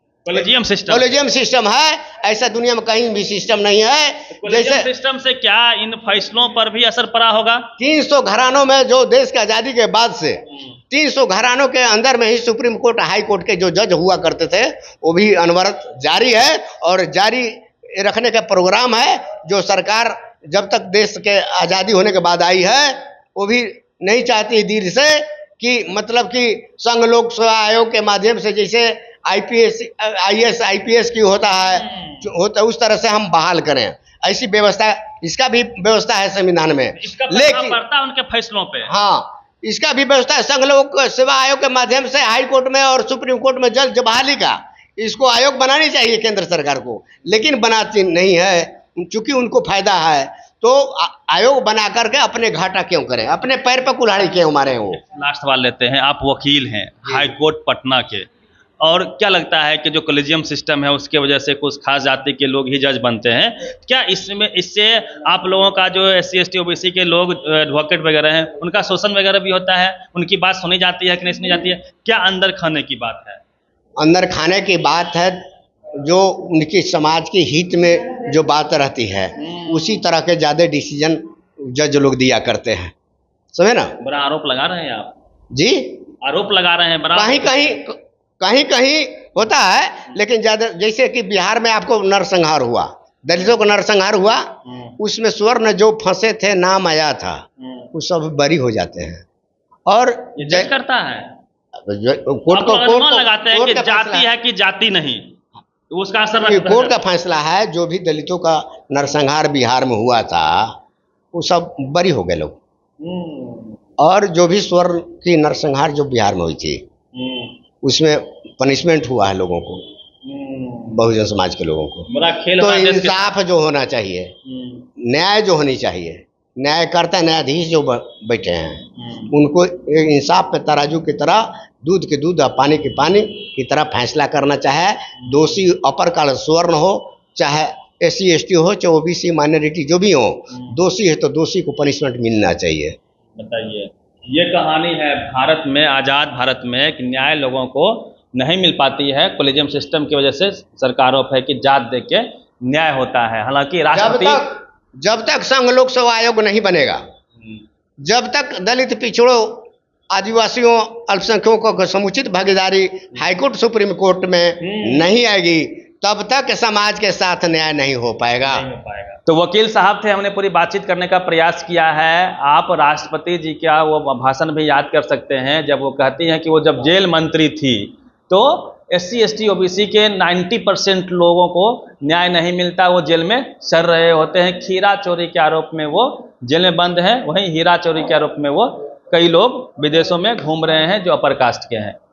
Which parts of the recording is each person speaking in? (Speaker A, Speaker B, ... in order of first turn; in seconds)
Speaker A: 0.2-1.1, 4.3-7.7, 31.5-32.3, 37.0-38.9, 54.9-58.3, 58.8-73.4, 79.4-80.0, 84.0-85.2, 86.2-87.8, 94.7-95.0, 97.6-97.9, 100.4-101.3, 102.5-105.3, 105.9-107.0, 113.0-113.8, 117.1-117.6, 120.2-121.0, 122.1-123.3, 124.5-124.9, 129.0-129.3, 135.3-135.6, 143.4-154.5, 164.6-165.1, 168.4-192.0
Speaker B: 0.9-4.9, 7.8-37.8, 38.9-55.0, 74.0-75.5, 76.0-82.9, 83.5-84.0, 85.5-86.0, 87.1-99.2, 99.9-100.7, 101.8-104.3, 106.4-110.8, 111.3-112.6, 114.0-116.8, 117.8-119.8, 120.9-124.3, 125.0-143.0, 153.9-157.0, 158.0-168.7